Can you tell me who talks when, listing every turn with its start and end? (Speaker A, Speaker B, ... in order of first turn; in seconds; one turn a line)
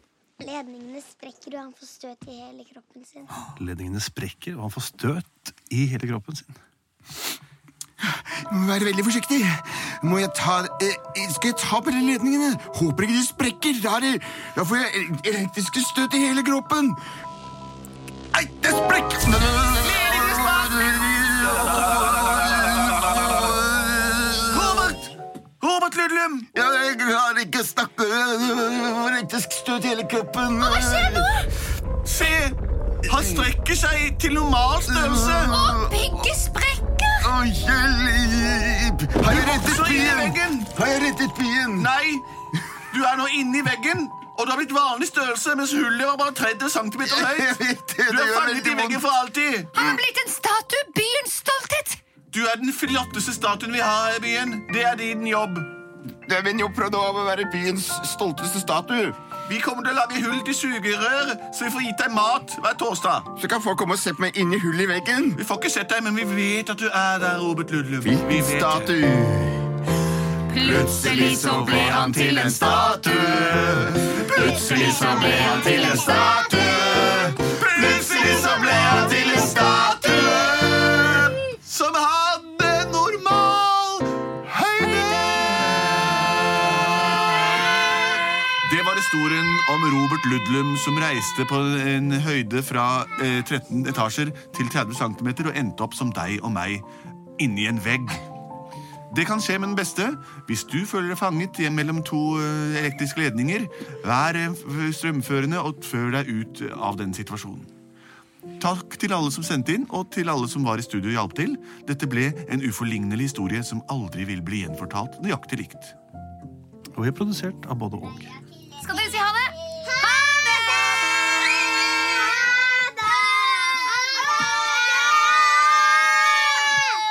Speaker A: 0.4-3.3
Speaker B: 3.6-6.6
Speaker C: 8.0-17.0
Speaker C: 18.3-24.9
Speaker D: 19.8-23.4
Speaker D: 24.5-26.5
Speaker C: 26.5-31.3
Speaker E: 30.6-31.5
Speaker D: 32.0-35.6
Speaker C: 33.1-33.5
Speaker C: 34.9-36.0
Speaker E: 35.4-37.3
Speaker C: 37.2-41.9
Speaker D: 39.3-40.7
Speaker D: 41.8-42.2
Speaker D: 42.9-49.8
Speaker C: 47.0-49.0
Speaker E: 49.7-52.0
Speaker D: 52.3-55.7
Speaker C: 56.3-59.2
Speaker D: 59.5-63.3
Speaker C: 63.4-65.4
Speaker D: 65.4-69.0
Speaker C: 68.0-69.7
Speaker E: 70.5-72.8
Speaker C: 70.5-77.0
Speaker D: 71.4-72.7
Speaker D: 73.9-75.7
Speaker E: 74.4-76.6
Speaker D: 77.4-87.6
Speaker E: 79.2-79.9
Speaker E: 84.8-85.4
Speaker D: 88.6-96.9
Speaker D: 97.4-98.2
Speaker D: 99.1-107.7
Speaker D: 108.6-116.0
Speaker B: 117.0-118.3
Speaker E: 118.8-121.0
Speaker A: 124.5-125.4